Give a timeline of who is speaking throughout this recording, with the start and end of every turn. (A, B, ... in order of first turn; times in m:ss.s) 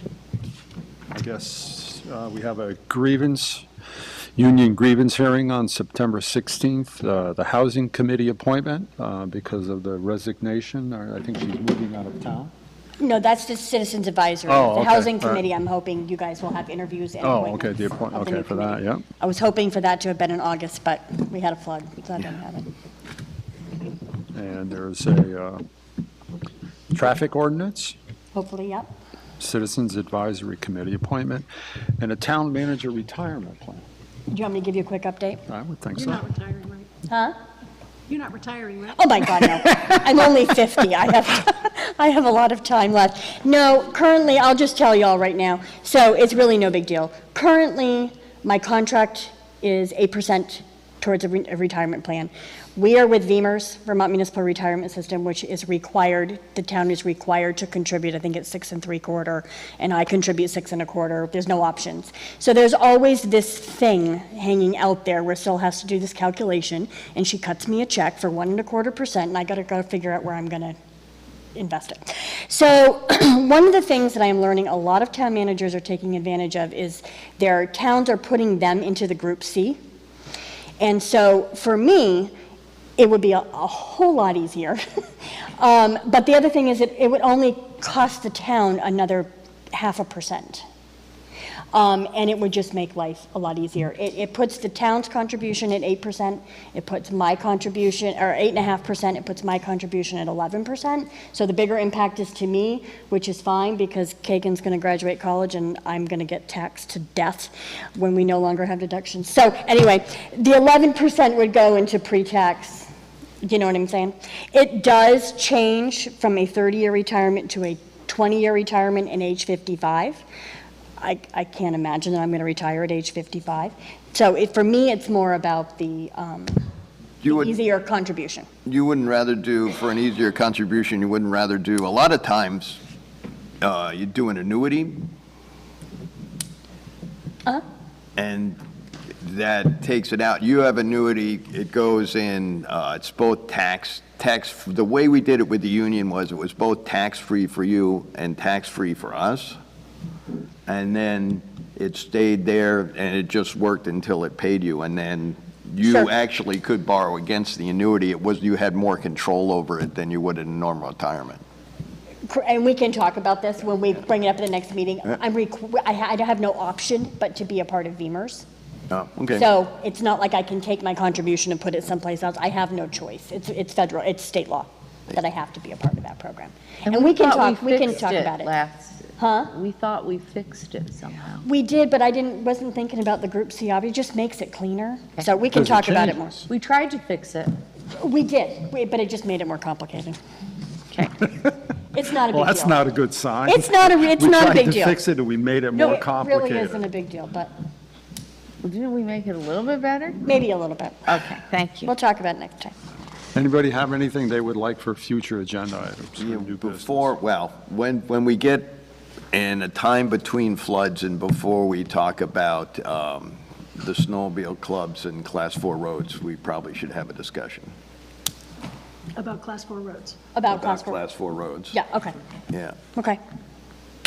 0:01.1-0:03.7 A
0:04.4-0:12.5 A
0:13.0-0:22.7 B
0:14.5-0:15.4 A
0:17.2-0:19.0 A
0:24.3-0:25.6 A
0:26.9-0:28.0 A
0:28.3-0:28.9 B
0:29.4-0:31.5 A
0:32.0-0:33.8 A
0:34.3-0:35.4 B
0:35.5-0:36.3 A
0:35.9-0:36.9 C
0:37.1-0:37.4 B
0:38.1-0:39.0 C
0:38.9-1:10.8 B
1:11.6-1:19.8 B
1:20.8-1:22.3 B
1:23.0-1:24.8 B
1:25.6-1:30.6 B
1:31.7-1:52.9 B
1:53.4-2:00.2 B
2:01.0-2:06.6 B
2:07.2-2:07.5 D
2:07.3-2:08.5 B
2:08.7-2:12.8 D
2:13.6-2:15.0 D
2:18.2-2:18.6 D
2:19.2-2:29.6 D
2:30.7-2:41.4 D
2:35.8-2:36.1 B
2:42.2-2:48.4 B
2:48.9-2:49.4 D
2:49.3-2:58.5 B
2:56.8-3:01.4 E
2:59.2-2:59.5 B
3:01.4-3:06.4 B
3:05.5-3:06.2 A
3:06.5-3:07.5 E
3:08.0-3:10.2 B
3:11.9-3:12.8 B
3:12.3-3:16.8 A
3:13.4-3:15.0 B
3:15.7-3:17.5 B
3:18.6-3:20.2 E
3:20.2-3:21.1 B
3:21.1-3:21.9 E
3:21.8-3:22.7 B
3:23.3-3:27.1 A
3:26.2-3:28.8 D
3:29.3-3:37.7 D
3:39.2-3:40.2 C
3:40.3-3:41.0 B
3:40.5-3:41.8 D
3:41.7-3:42.2 B
3:42.5-3:42.8 D
3:42.9-3:43.2 B